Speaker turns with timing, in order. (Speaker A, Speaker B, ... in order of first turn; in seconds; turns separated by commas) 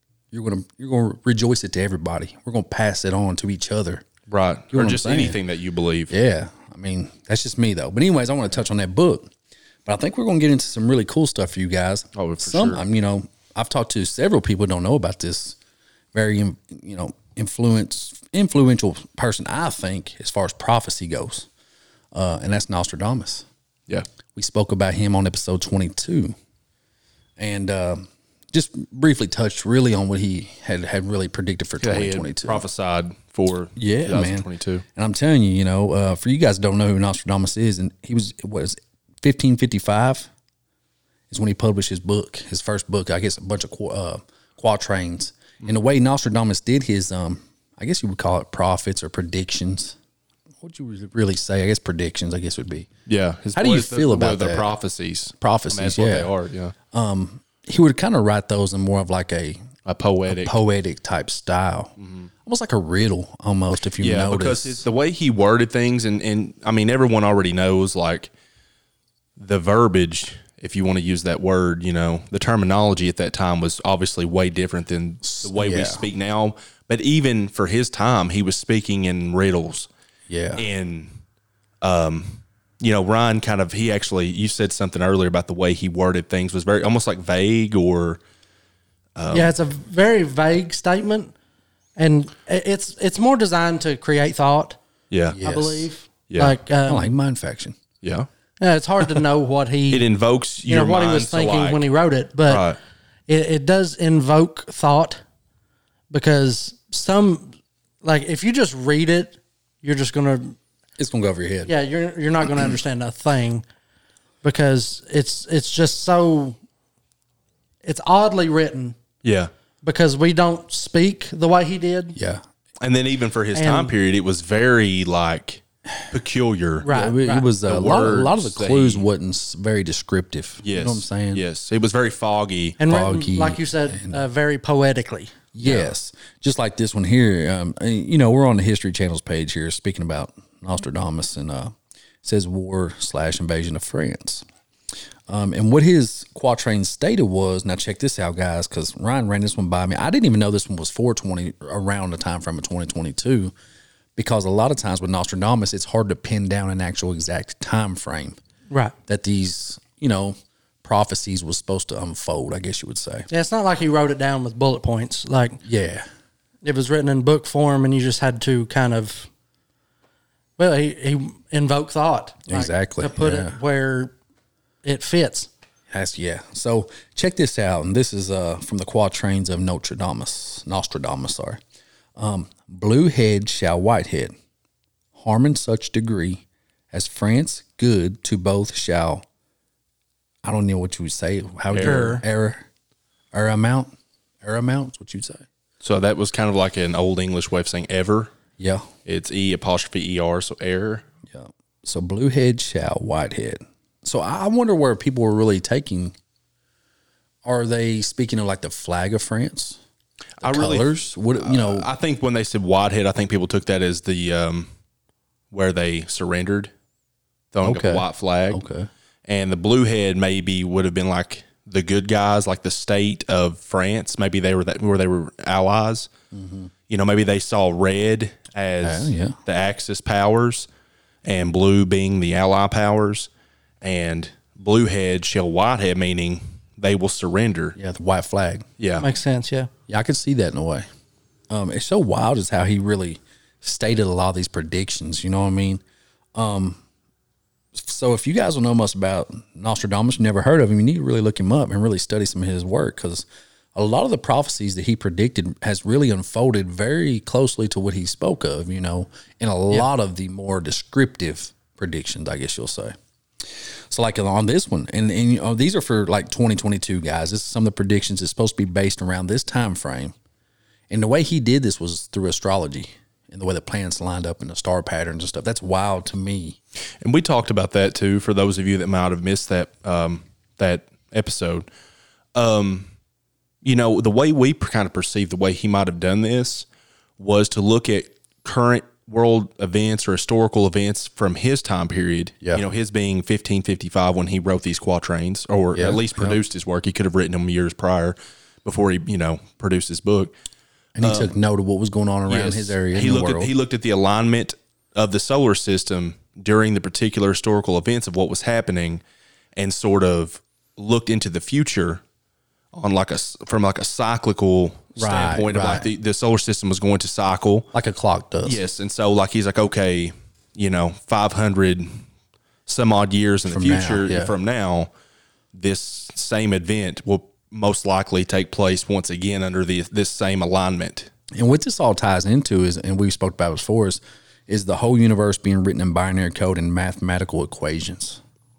Speaker A: 0.3-4.0, Speaker B: 4.3-6.1, Speaker A: 4.7-5.4, Speaker A: 6.1-9.3, Speaker A: 9.9-15.6, Speaker B: 12.2-12.8, Speaker A: 16.1-21.5, Speaker A: 22.1-23.5, Speaker A: 24.4-26.4, Speaker A: 27.4-32.6, Speaker B: 31.8-34.9, Speaker A: 33.8-40.3, Speaker A: 41.3-50.0, Speaker A: 50.6-52.9, Speaker B: 53.1-56.7, Speaker A: 53.5-54.7, Speaker A: 55.4-56.3, Speaker A: 56.9-59.6, Speaker B: 59.9-60.5, Speaker A: 60.3-61.9, Speaker B: 62.0-62.3, Speaker A: 62.5-64.8, Speaker B: 64.0-68.3, Speaker B: 69.4-79.9, Speaker A: 75.2-76.0, Speaker A: 80.3-80.7, Speaker B: 80.6-81.2, Speaker B: 81.8-88.2, Speaker B: 89.2-89.6, Speaker C: 89.3-91.3, Speaker C: 92.0-94.8, Speaker B: 95.1-95.4, Speaker A: 95.3-95.9, Speaker C: 95.4-97.1, Speaker B: 96.3-96.6, Speaker A: 96.8-97.8, Speaker B: 98.0-98.3, Speaker C: 98.6-100.1, Speaker B: 99.9-101.8, Speaker C: 100.7-102.7, Speaker B: 102.5-102.8, Speaker C: 103.3-105.2, Speaker C: 106.1-110.6, Speaker A: 111.0-111.7, Speaker C: 111.7-113.6, Speaker C: 114.4-116.6, Speaker C: 117.8-119.0, Speaker B: 119.2-119.5, Speaker C: 119.8-122.2, Speaker A: 122.2-122.4, Speaker B: 122.8-126.9, Speaker C: 123.5-123.9, Speaker C: 126.8-127.5, Speaker A: 126.9-131.4, Speaker B: 127.6-129.1, Speaker B: 130.6-132.8, Speaker C: 132.8-135.4, Speaker A: 132.9-134.2, Speaker A: 135.6-144.5, Speaker B: 135.6-135.9, Speaker A: 145.3-153.5, Speaker A: 154.2-158.4, Speaker C: 158.7-158.9, Speaker A: 159.1-163.3, Speaker C: 163.3-165.6, Speaker A: 165.7-166.1, Speaker C: 166.6-169.3, Speaker C: 170.6-174.1, Speaker A: 172.5-173.6, Speaker C: 174.8-175.5, Speaker A: 175.9-181.6, Speaker A: 182.2-184.3, Speaker A: 185.2-189.2, Speaker A: 190.4-192.7, Speaker B: 191.7-192.2, Speaker C: 191.8-192.2, Speaker A: 193.3-195.4, Speaker B: 195.8-198.3, Speaker A: 198.6-198.9, Speaker B: 199.1-201.1, Speaker A: 201.3-206.2, Speaker A: 207.4-209.8, Speaker B: 210.4-214.7, Speaker A: 210.4-211.9, Speaker B: 215.5-216.7, Speaker B: 217.5-218.6, Speaker A: 217.6-218.9, Speaker B: 219.3-226.1, Speaker A: 226.3-226.7, Speaker B: 226.9-230.7, Speaker A: 228.8-229.4, Speaker B: 231.2-233.3, Speaker B: 233.8-237.8, Speaker A: 237.8-238.7, Speaker B: 238.8-239.1, Speaker C: 239.0-239.7, Speaker A: 239.9-240.9, Speaker A: 241.5-245.8, Speaker A: 246.3-246.8, Speaker A: 247.8-263.0, Speaker A: 263.5-270.1, Speaker A: 270.9-276.6, Speaker B: 277.0-281.7, Speaker B: 282.4-282.9, Speaker B: 283.6-286.7, Speaker B: 287.2-300.3, Speaker A: 295.8-296.4, Speaker A: 301.0-303.5, Speaker B: 301.0-301.3, Speaker B: 302.3-309.0, Speaker B: 309.6-312.0, Speaker B: 312.7-317.7, Speaker A: 315.0-315.9, Speaker A: 317.7-318.6, Speaker B: 318.4-322.0, Speaker B: 322.7-324.9, Speaker A: 323.5-324.3, Speaker B: 325.5-331.1, Speaker A: 331.3-338.2